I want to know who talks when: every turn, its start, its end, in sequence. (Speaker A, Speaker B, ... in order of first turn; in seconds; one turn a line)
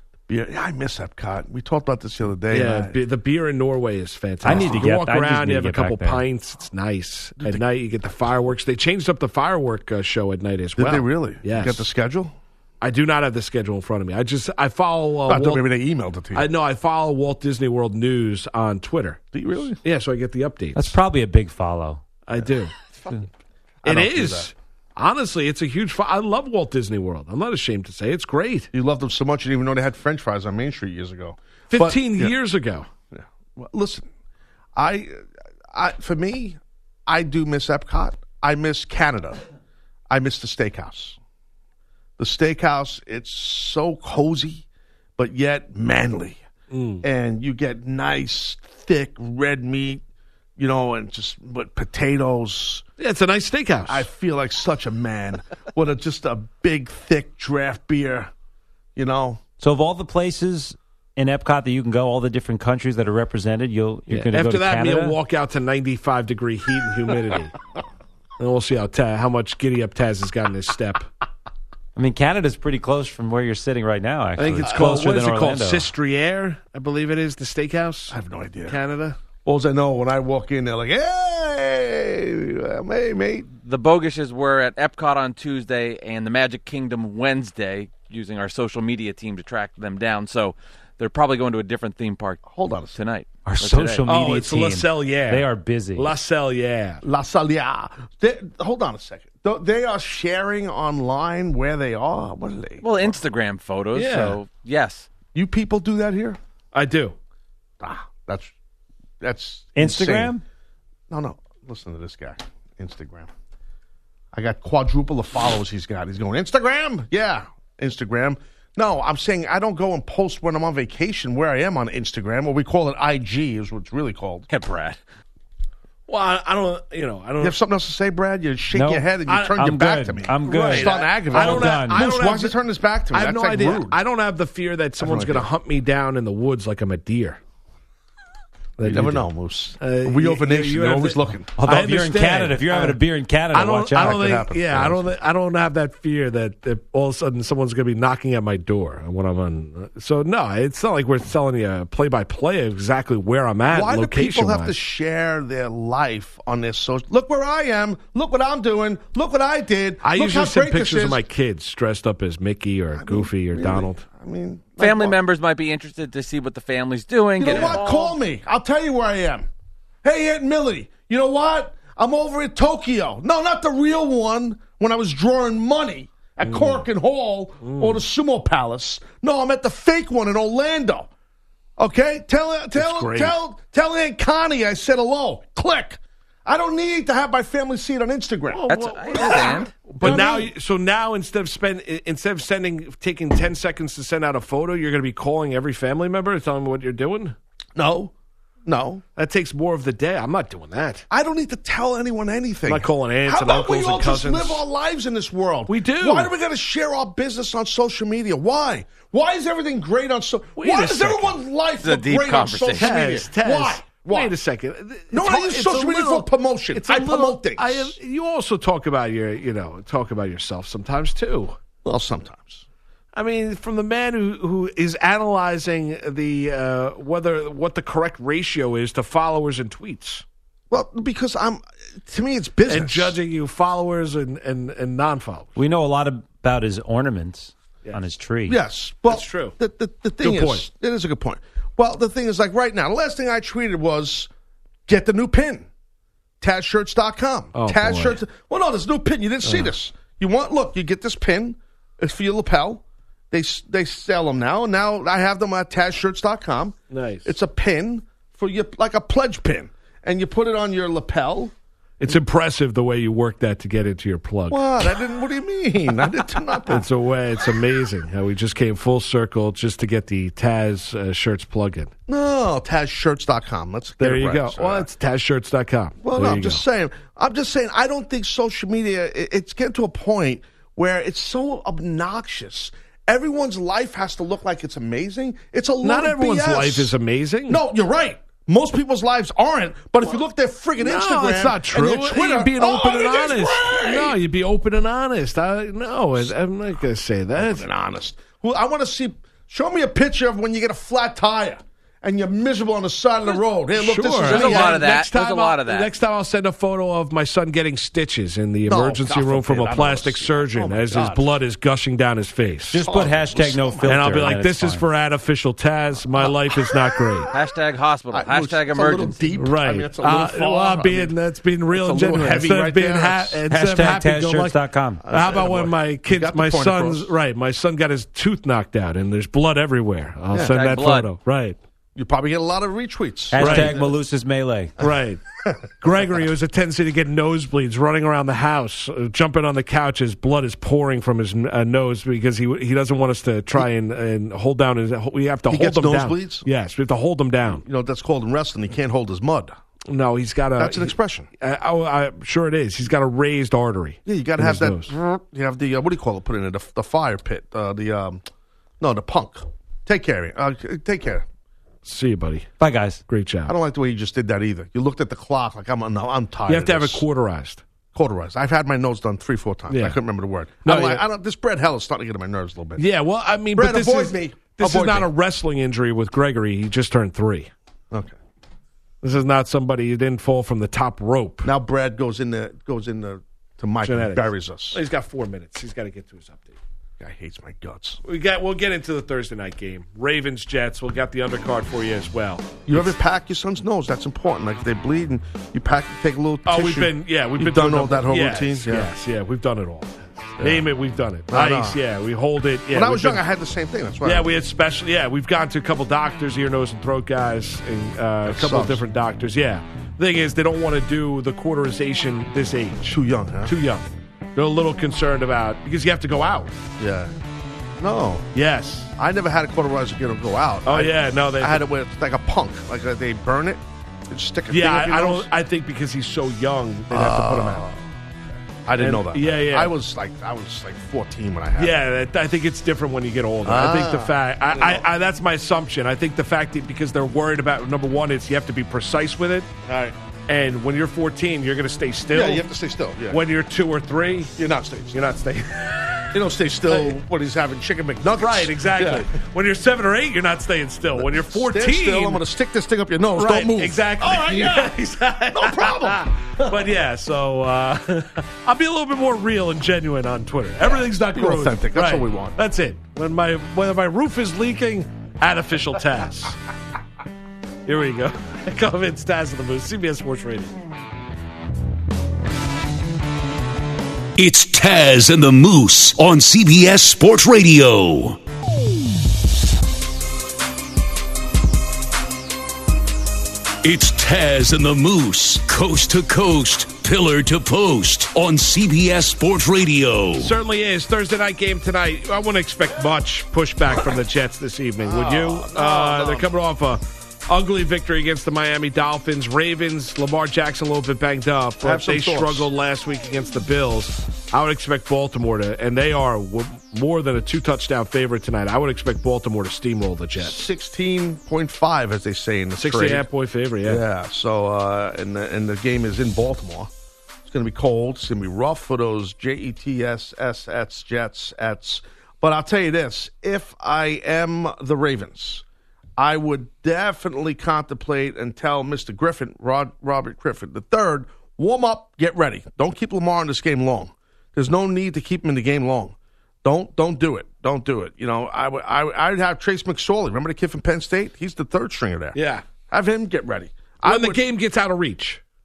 Speaker A: 0.3-3.0
Speaker B: 2.5-11.8
Speaker C: 4.4-6.2
Speaker A: 4.5-4.8
Speaker A: 7.4-7.7
Speaker A: 10.8-12.3
Speaker B: 12.8-15.6
Speaker A: 15.3-16.5
Speaker B: 16.3-19.2
Speaker A: 19.3-19.8
Speaker B: 19.8-21.0
Speaker C: 20.7-22.0
Speaker B: 22.3-22.7
Speaker A: 23.8-24.5
Speaker B: 23.8-28.7
Speaker A: 28.7-32.3
Speaker B: 31.7-32.9
Speaker A: 33.1-34.1
Speaker A: 34.7-39.4
Speaker A: 40.1-41.2
Speaker A: 42.2-44.6
Speaker A: 45.2-46.4
Speaker B: 46.7-47.0
Speaker A: 47.0-50.0
Speaker A: 50.6-52.8
Speaker B: 53.0-54.1
Speaker A: 53.9-58.3
Speaker A: 59.0-59.4
Speaker C: 59.6-65.2
Speaker B: 64.1-67.6
Speaker B: 68.4-71.1
Speaker C: 72.0-75.9
Speaker B: 74.4-79.2
Speaker A: 74.6-75.1
Speaker A: 78.1-78.8
Speaker A: 79.4-83.5
Speaker D: 83.6-94.0
Speaker A: 92.5-93.0
Speaker C: 93.5-96.1
Speaker B: 94.0-97.0
Speaker A: 97.0-103.2
Speaker D: 102.8-105.1
Speaker B: 103.9-104.4
Speaker A: 105.3-106.4
Speaker B: 106.7-107.2
Speaker A: 107.8-108.5
Speaker A: 109.2-110.3
Speaker C: 109.8-110.4
Speaker A: 111.1-113.3
Speaker A: 114.3-124.5
Speaker D: 124.5-125.0
Speaker B: 126.1-127.6
Speaker A: 127.4-134.0
Speaker C: 128.7-132.1
Speaker B: 129.3-129.6
Speaker B: 130.4-132.6
Speaker B: 133.1-137.4
Speaker A: 135.0-135.5
Speaker B: 138.8-139.2
Speaker A: 138.8-141.5
Speaker B: 139.8-143.0
Speaker C: 141.6-144.2
Speaker B: 143.5-154.7
Speaker A: 144.0-145.1
Speaker A: 153.7-161.2
Speaker B: 160.0-164.0
Speaker A: 162.9-165.2
Speaker D: 164.8-168.2
Speaker A: 167.4-169.5
Speaker B: 167.4-167.8
Speaker A: 170.0-181.1
Speaker B: 176.4-176.8
Speaker B: 177.6-178.0
Speaker A: 181.8-190.5
Speaker B: 182.7-183.3
Speaker B: 188.5-197.3
Speaker D: 188.7-190.1
Speaker A: 197.8-198.1
Speaker A: 198.7-199.0
Speaker B: 199.2-201.0
Speaker A: 201.1-214.3
Speaker B: 202.7-204.6
Speaker B: 205.7-206.3
Speaker B: 210.6-211.4
Speaker D: 211.8-213.3
Speaker B: 212.7-221.6
Speaker A: 215.1-217.9
Speaker A: 221.8-222.6
Speaker B: 223.1-230.2
Speaker A: 230.7-233.2
Speaker B: 232.7-235.5
Speaker C: 235.6-238.6
Speaker A: 238.5-244.3
Speaker B: 239.1-239.6
Speaker B: 240.2-240.7
Speaker A: 244.9-245.7
Speaker A: 246.4-261.5
Speaker B: 247.5-248.2
Speaker B: 249.4-249.7
Speaker B: 256.9-257.3
Speaker B: 262.0-264.6
Speaker A: 264.5-266.9
Speaker B: 266.7-271.9
Speaker A: 272.1-274.9
Speaker B: 274.0-276.6
Speaker A: 276.0-286.9
Speaker B: 285.8-287.6
Speaker A: 287.5-294.2
Speaker B: 290.8-297.6
Speaker A: 297.4-304.8
Speaker B: 303.7-312.8
Speaker D: 304.2-305.9
Speaker A: 308.7-311.3
Speaker C: 312.7-314.8
Speaker A: 312.7-314.1
Speaker B: 313.9-317.3
Speaker D: 317.3-319.2
Speaker A: 318.1-321.1
Speaker B: 319.4-331.6
Speaker A: 321.7-323.4
Speaker C: 323.5-325.0
Speaker A: 325.0-327.1
Speaker A: 330.3-330.6
Speaker D: 330.4-331.1
Speaker A: 331.9-333.9
Speaker C: 333.3-334.7
Speaker B: 333.4-333.9
Speaker B: 334.8-335.2
Speaker B: 335.8-347.6
Speaker A: 345.5-346.4
Speaker A: 347.5-349.6
Speaker B: 349.9-354.9
Speaker A: 350.6-351.3
Speaker A: 354.1-358.2
Speaker A: 358.8-361.2
Speaker B: 361.8-362.5
Speaker C: 362.6-363.0
Speaker B: 363.1-363.5
Speaker A: 363.5-367.0
Speaker B: 366.5-367.6
Speaker A: 367.9-372.8
Speaker B: 369.7-370.0
Speaker B: 370.6-371.0
Speaker B: 372.8-377.5
Speaker A: 373.5-375.1
Speaker A: 377.9-378.1
Speaker B: 379.0-381.5
Speaker A: 381.4-384.8
Speaker B: 383.8-386.6
Speaker A: 387.0-388.0
Speaker B: 388.0-392.9
Speaker A: 392.7-398.9
Speaker B: 396.4-403.2
Speaker A: 400.4-400.7
Speaker A: 401.3-401.8
Speaker A: 402.7-404.3
Speaker B: 404.0-413.8
Speaker A: 408.2-408.8
Speaker A: 412.8-413.5
Speaker B: 414.4-416.5
Speaker A: 416.8-417.1
Speaker A: 417.8-418.2
Speaker B: 418.3-418.9
Speaker A: 419.0-425.3
Speaker B: 420.6-421.6
Speaker B: 424.5-427.7
Speaker A: 426.9-427.8
Speaker A: 428.6-431.8
Speaker B: 428.8-429.7
Speaker B: 431.6-439.5
Speaker A: 433.4-434.9
Speaker A: 439.6-439.9
Speaker B: 440.3-442.5
Speaker A: 442.1-443.2
Speaker B: 443.1-444.3
Speaker A: 444.4-445.0
Speaker B: 444.9-447.0
Speaker A: 446.1-449.1
Speaker B: 448.1-452.2
Speaker A: 450.9-454.8
Speaker B: 453.1-466.4
Speaker A: 455.3-456.6
Speaker A: 460.6-462.4
Speaker B: 467.6-470.5
Speaker E: 474.2-478.2
Speaker E: 483.6-490.3
Speaker B: 490.2-510.4
Speaker A: 494.8-496.3
Speaker A: 501.6-502.5
Speaker A: 510.1-513.0
Speaker B: 512.6-513.8
Speaker A: 513.6-516.7
Speaker A: 517.2-525.4
Speaker A: 526.0-542.2
Speaker B: 542.1-542.4
Speaker A: 542.7-544.2
Speaker B: 543.8-545.2